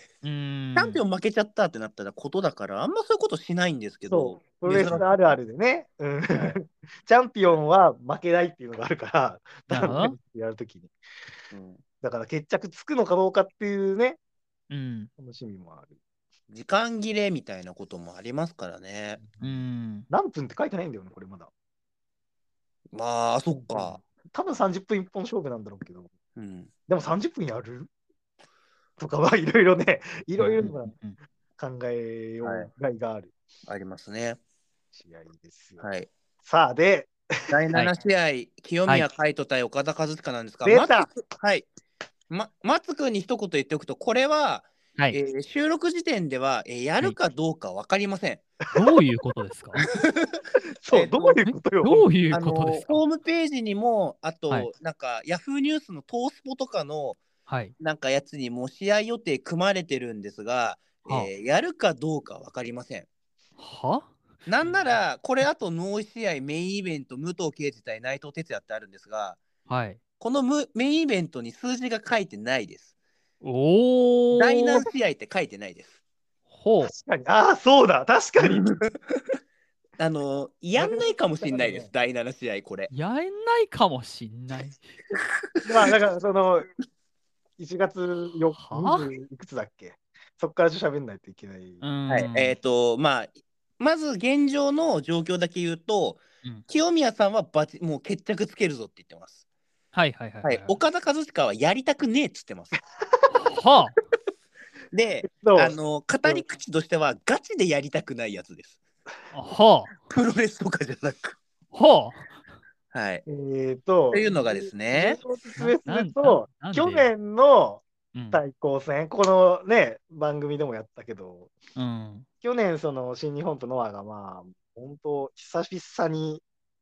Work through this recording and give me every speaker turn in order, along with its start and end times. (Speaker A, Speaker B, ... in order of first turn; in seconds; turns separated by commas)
Speaker A: 0.2-1.0, Speaker B: 0.7-5.0, Speaker C: 4.1-10.9, Speaker A: 4.7-5.1, Speaker A: 9.7-10.2, Speaker B: 11.5-11.8, Speaker C: 12.0-14.2, Speaker A: 14.7-15.1, Speaker C: 15.2-15.9, Speaker B: 16.5-19.2, Speaker C: 19.2-19.6, Speaker A: 19.4-20.1, Speaker C: 20.1-21.5, Speaker B: 22.9-24.0, Speaker C: 23.5-26.1, Speaker B: 26.4-26.7, Speaker C: 26.9-27.9, Speaker C: 29.0-30.9, Speaker A: 30.4-31.2, Speaker C: 31.6-33.3, Speaker B: 32.4-32.7, Speaker B: 33.7-34.4, Speaker C: 34.9-35.9, Speaker B: 35.8-36.1, Speaker C: 36.4-37.5, Speaker B: 37.5-41.7, Speaker C: 40.6-41.1, Speaker B: 42.3-48.4, Speaker A: 48.7-49.8, Speaker B: 49.8-51.4, Speaker C: 50.8-52.1, Speaker A: 51.5-53.0, Speaker B: 52.3-57.2, Speaker A: 57.5-57.7, Speaker B: 57.8-63.1, Speaker A: 63.6-65.0, Speaker B: 64.5-69.4, Speaker A: 69.7-70.0, Speaker B: 70.2-72.9, Speaker A: 73.4-74.9, Speaker B: 74.3-75.9, Speaker A: 76.5-76.9, Speaker C: 76.8-78.7, Speaker B: 78.4-79.2, Speaker B: 80.0-82.9, Speaker C: 80.8-81.9, Speaker A: 82.9-84.9, Speaker B: 85.1-85.9, Speaker C: 85.6-86.7, Speaker C: 87.6-91.8, Speaker A: 88.6-89.1, Speaker A: 91.8-92.5, Speaker B: 92.1-99.4, Speaker A: 99.9-100.8, Speaker B: 100.4-102.8, Speaker A: 103.3-103.9, Speaker B: 104.9-108.8, Speaker C: 105.2-106.5, Speaker A: 109.3-110.1, Speaker B: 110.1-111.4, Speaker A: 111.7-112.4, Speaker B: 112.9-113.2, Speaker C: 113.2-121.5, Speaker B: 114.1-115.2, Speaker A: 115.6-117.1, Speaker A: 118.1-118.4, Speaker A: 121.8-122.2, Speaker C: 122.4-126.4